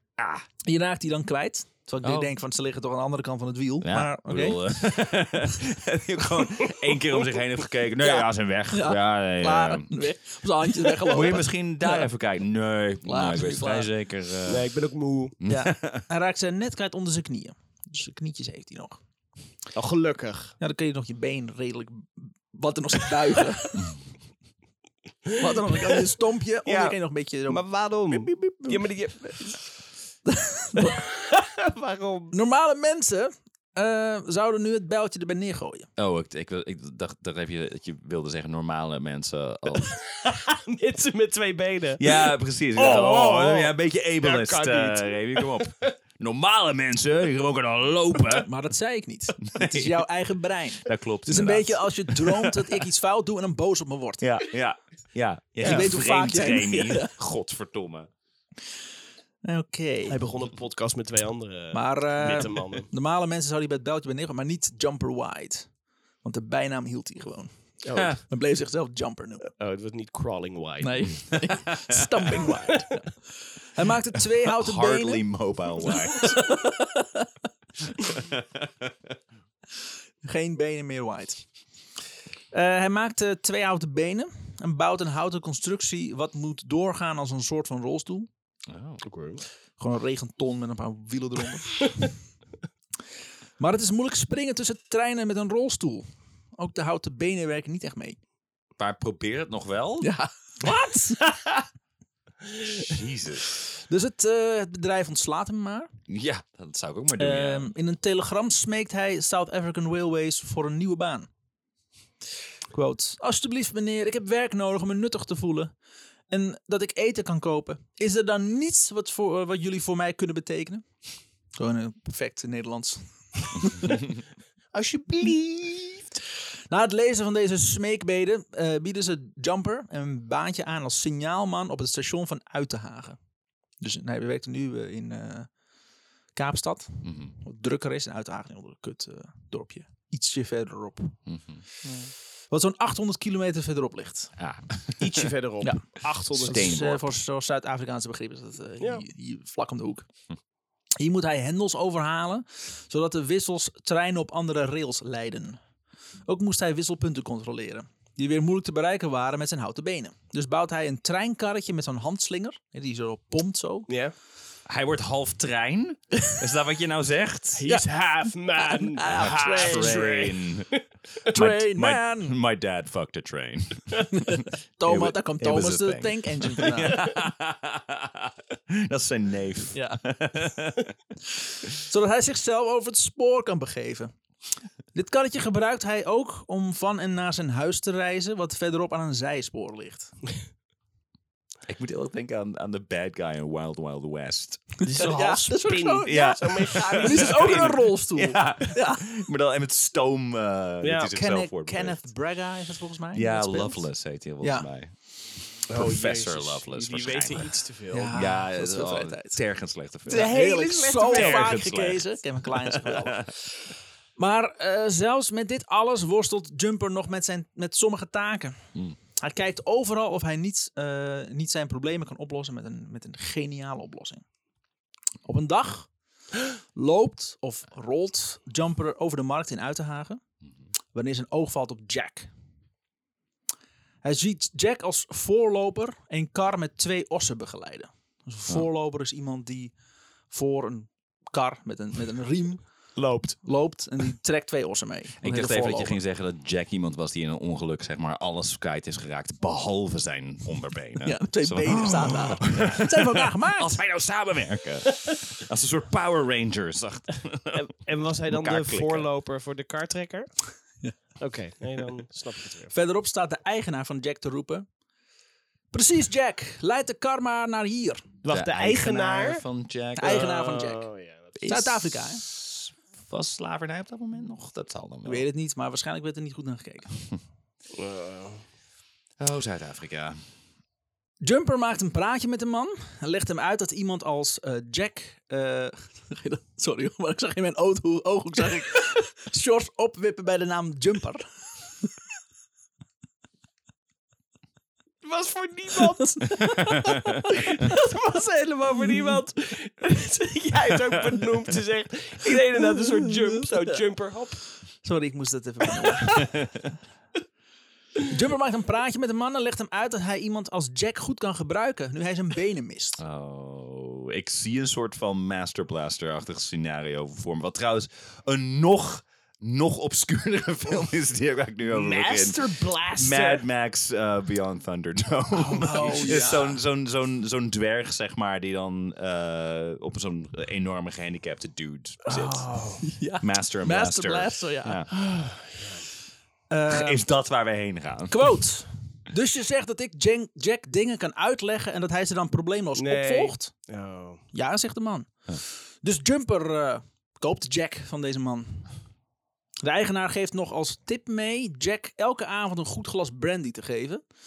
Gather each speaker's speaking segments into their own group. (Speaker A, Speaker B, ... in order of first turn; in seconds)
Speaker A: 0.2-0.4, 2.0-2.3, 3.8-9.9, 11.0-14.7, 15.4-16.0, 36.0-40.0, 42.0-48.5, 49.4-50.0, 50.9-52.8, 54.2-58.1, 71.3-72.1, 74.4-76.4, 78.0-78.9, 88.7-89.0, 98.8-100.1, 102.8-103.5, 106.1-107.7, 137.0-137.3, 141.3-142.1, 144.4-145.3, 146.4-147.1, 164.7-167.6, 169.1-170.7, 171.3-180.9, 191.7-194.7, 196.1-202.0, 203.1-204.9, 205.7-207.5, 208.1-210.4, 211.1-213.2, 245.2-257.6, 258.3-259.1, 268.3-270.2, 271.4-275.2, 279.2-280.2, 296.7-297.1, 306.1-306.7, 313.0-332.5, 333.2-334.9, 336.7-338.2
Speaker B: 0.7-4.8, 8.7-12.0, 13.1-13.9, 15.5-19.0, 20.6-23.9, 25.4-28.8, 30.3-31.0, 32.3-35.9, 48.4-54.2, 55.6-57.1, 59.4-60.2, 61.7-65.7, 66.2-69.5, 70.8-73.1, 73.8-75.2, 75.8-77.3, 80.2-81.4, 82.5-88.3, 89.8-92.1, 93.6-96.0, 96.6-98.2, 100.0-101.2, 103.9-105.9, 107.2-111.3, 112.7-115.7, 116.3-120.8, 121.5-124.1, 126.7-133.2, 133.8-135.5, 136.3-141.2, 142.5-144.3, 145.6-150.1, 151.0-155.6, 156.3-163.9, 168.6-170.3, 171.3-172.4, 174.1-177.1, 179.7-180.0, 181.8-184.1, 184.9-190.1, 194.8-199.1, 201.1-203.9, 204.4-204.7, 207.9-209.4, 210.1-213.4, 214.2-218.6, 219.2-224.2, 225.2-225.9, 226.8-230.2, 230.9-232.3, 234.0-239.7, 240.3-242.7, 243.4-246.0, 251.0-253.8, 262.7-264.6, 265.7-268.1, 270.0-270.9, 271.4-272.2, 275.0-276.9, 281.2-291.2, 296.0-297.3, 302.8-303.4, 304.8-306.3, 308.1-313.0, 325.4-326.6, 332.8-335.2, 336.5-337.0, 338.1-343.5, 344.3-345.1, 345.8-348.7, 349.6-354.0
Speaker C: 14.5-15.4, 19.7-20.5, 25.3-26.0, 26.7-29.6, 30.8-32.3, 40.0-45.9, 55.6-55.9, 60.1-62.9, 67.8-68.2, 69.6-71.2, 72.4-72.9, 89.0-89.4, 124.7-126.1, 145.0-146.8, 163.9-164.1, 167.6-170.8, 194.8-197.8, 200.8-201.1, 205.7-208.1, 210.1-211.6, 243.0-243.4, 257.5-260.3, 261.2-262.7, 268.2-269.4, 270.0-271.4, 277.7-278.4, 295.0-304.4, 321.7-323.4, 332.1-332.8, 335.1-335.9, 342.8-344.2